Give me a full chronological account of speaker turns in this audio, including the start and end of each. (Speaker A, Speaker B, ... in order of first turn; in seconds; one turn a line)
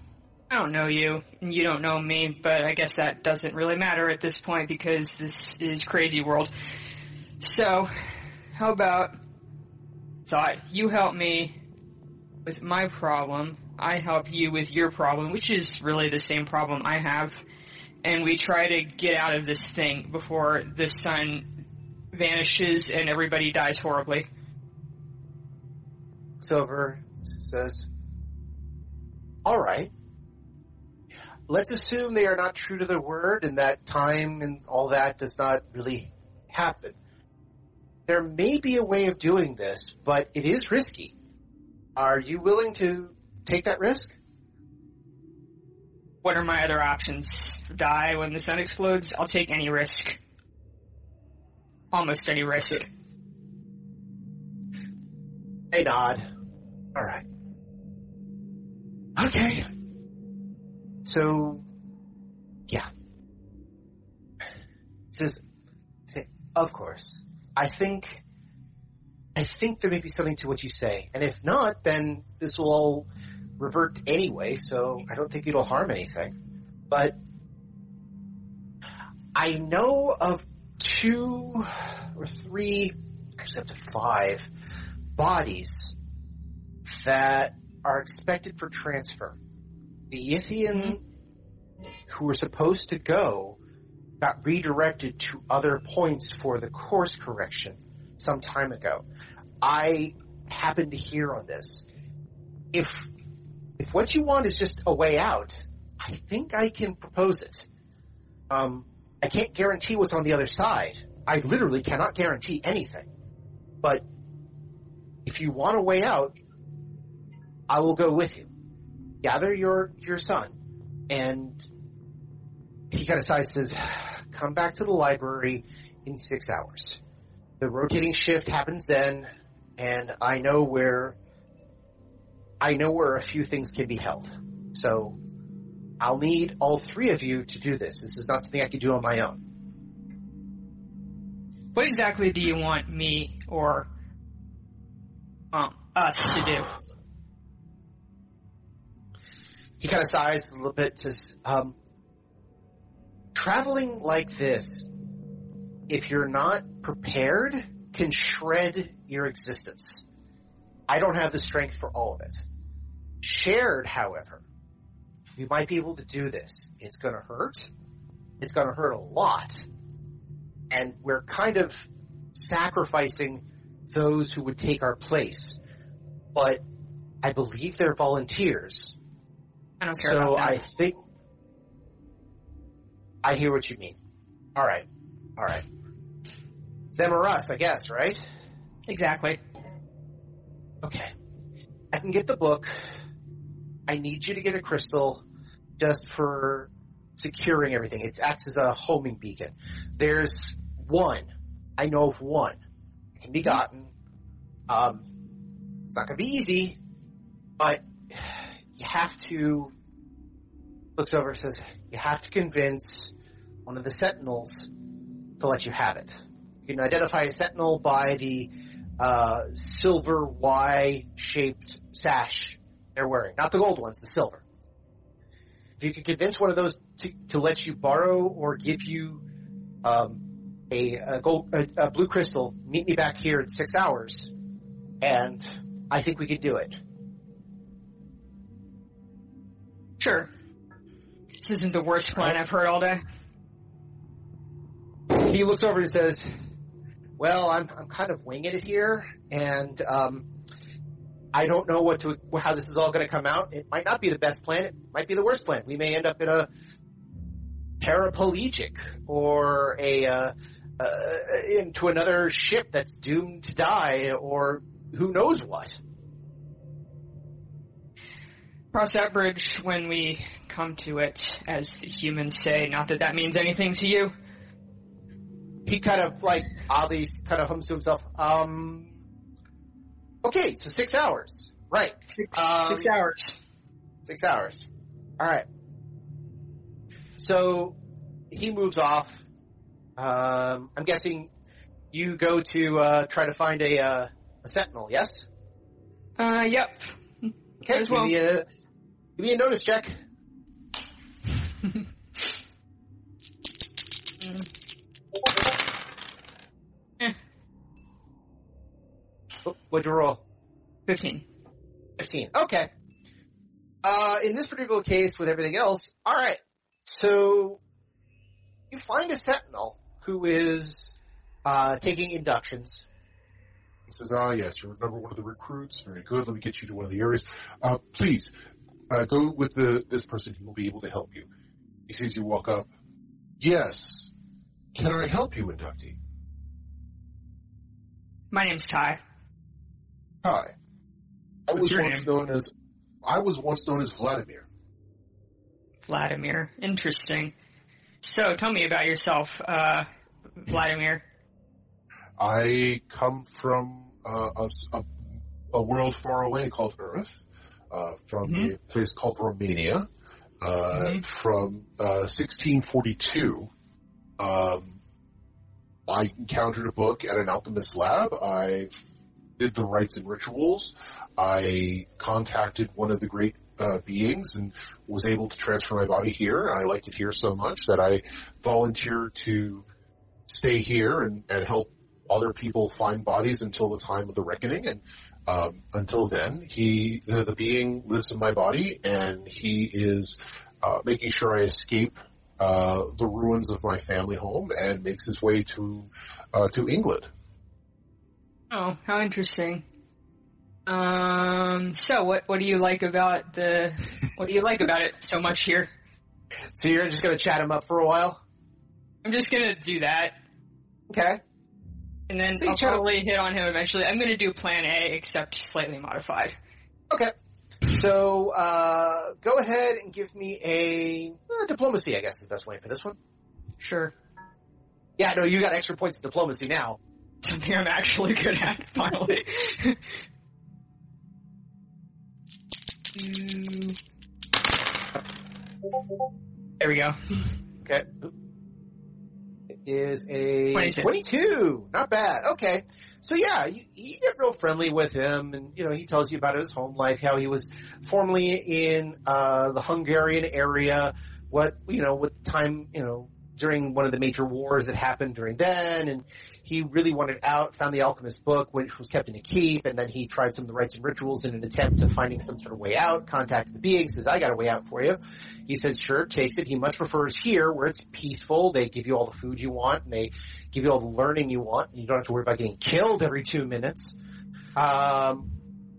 Speaker A: 0.5-6.5
Speaker A: 7.4-9.1
Speaker A: 10.2-11.5
Speaker A: 12.4-17.4
Speaker A: 18.0-21.4
Speaker A: 22.1-24.3
Speaker B: 26.4-27.9
Speaker B: 29.4-29.9
Speaker B: 31.5-37.0
Speaker B: 38.1-41.1
Speaker B: 42.0-44.1
Speaker A: 46.2-50.2
Speaker A: 51.9-52.9
Speaker B: 55.7-56.2
Speaker B: 56.9-57.2
Speaker B: 59.2-59.7
Speaker B: 61.0-61.6
Speaker B: 65.1-65.4
Speaker B: 66.1-68.2
Speaker B: 69.3-73.1
Speaker B: 73.6-76.3
Speaker B: 76.9-77.2
Speaker B: 79.3-84.5
Speaker B: 85.2-85.9
Speaker B: 86.8-89.4
Speaker B: 90.1-91.0
Speaker B: 92.1-93.6
Speaker B: 94.2-99.0
Speaker B: 99.6-101.8
Speaker B: 102.7-103.1
Speaker B: 103.8-107.7
Speaker B: 108.5-113.1
Speaker B: 115.2-116.3
Speaker B: 117.7-118.5
Speaker B: 119.2-120.5
Speaker B: 121.1-121.7
Speaker B: 122.9-127.0
Speaker B: 127.6-131.2
Speaker B: 132.6-135.2
Speaker B: 136.0-139.4
Speaker A: 141.7-143.9
Speaker A: 145.5-146.7
Speaker B: 149.8-151.7
Speaker B: 153.3-154.9
Speaker B: 155.9-160.0
Speaker B: 160.9-162.4
Speaker B: 163.2-164.4
Speaker B: 165.4-167.7
Speaker B: 168.4-169.6
Speaker B: 170.7-175.6
Speaker B: 176.3-176.6
Speaker B: 177.2-178.9
Speaker A: 179.8-180.6
Speaker B: 179.9-181.0
Speaker B: 183.2-183.9
Speaker B: 184.6-184.8
Speaker B: 185.4-185.6
Speaker B: 186.9-188.2
Speaker A: 188.9-189.4
Speaker B: 190.8-191.1
Speaker B: 191.9-192.8
Speaker B: 193.9-195.2
Speaker B: 195.8-202.6
Speaker B: 203.2-203.9
Speaker B: 204.7-205.1
Speaker B: 205.9-206.8
Speaker B: 207.6-209.7
Speaker B: 211.0-213.1
Speaker B: 213.7-214.7
Speaker B: 215.4-224.4
Speaker B: 225.8-229.2
Speaker B: 229.8-234.3
Speaker B: 235.0-236.8
Speaker A: 240.0-240.3
Speaker A: 241.4-243.0
Speaker B: 245.1-246.3
Speaker B: 247.2-250.2
Speaker B: 251.3-256.5
Speaker B: 257.8-265.8
Speaker A: 268.7-274.1
Speaker B: 275.6-278.9
Speaker B: 280.2-282.9
Speaker A: 282.1-283.3
Speaker B: 284.0-284.7
Speaker B: 285.2-285.4
Speaker B: 287.2-287.8
Speaker B: 288.3-289.2
Speaker B: 290.0-291.3
Speaker B: 291.9-295.2
Speaker A: 296.2-298.1
Speaker B: 297.6-298.4
Speaker B: 299.2-299.9
Speaker A: 304.2-304.5
Speaker B: 309.4-310.2
Speaker A: 310.9-311.2
Speaker B: 312.0-312.7
Speaker B: 313.8-317.6
Speaker B: 318.7-322.8
Speaker C: 323.9-328.3
Speaker C: 328.9-331.3
Speaker C: 331.9-332.7
Speaker C: 333.4-334.1
Speaker C: 334.7-336.0
Speaker A: 338.3-339.0
Speaker C: 340.2-340.5
Speaker C: 341.5-342.5
Speaker A: 341.6-342.1
Speaker C: 343.0-344.4
Speaker A: 345.9-347.3
Speaker A: 348.0-349.9
Speaker A: 350.4-351.0
Speaker C: 352.2-354.9
Speaker C: 355.5-359.9
Speaker A: 358.2-358.5
Speaker C: 360.4-363.5
Speaker A: 360.7-361.0
Speaker C: 364.2-364.7
Speaker C: 365.9-368.8
Speaker C: 369.4-379.6
Speaker C: 380.3-397.1
Speaker A: 398.5-399.6
Speaker A: 400.7-405.7
Speaker B: 406.5-408.2
Speaker A: 409.0-410.1
Speaker B: 410.9-411.2
Speaker A: 412.1-416.4
Speaker B: 412.4-412.8
Speaker B: 417.6-423.0
Speaker A: 423.6-423.9
Speaker B: 425.0-426.8
Speaker A: 427.2-429.8
Speaker A: 432.9-433.8
Speaker A: 436.6-437.0
Speaker B: 437.6-438.1
Speaker B: 439.6-473.9
Speaker A: 440.5-440.9
Speaker B: 474.6-475.3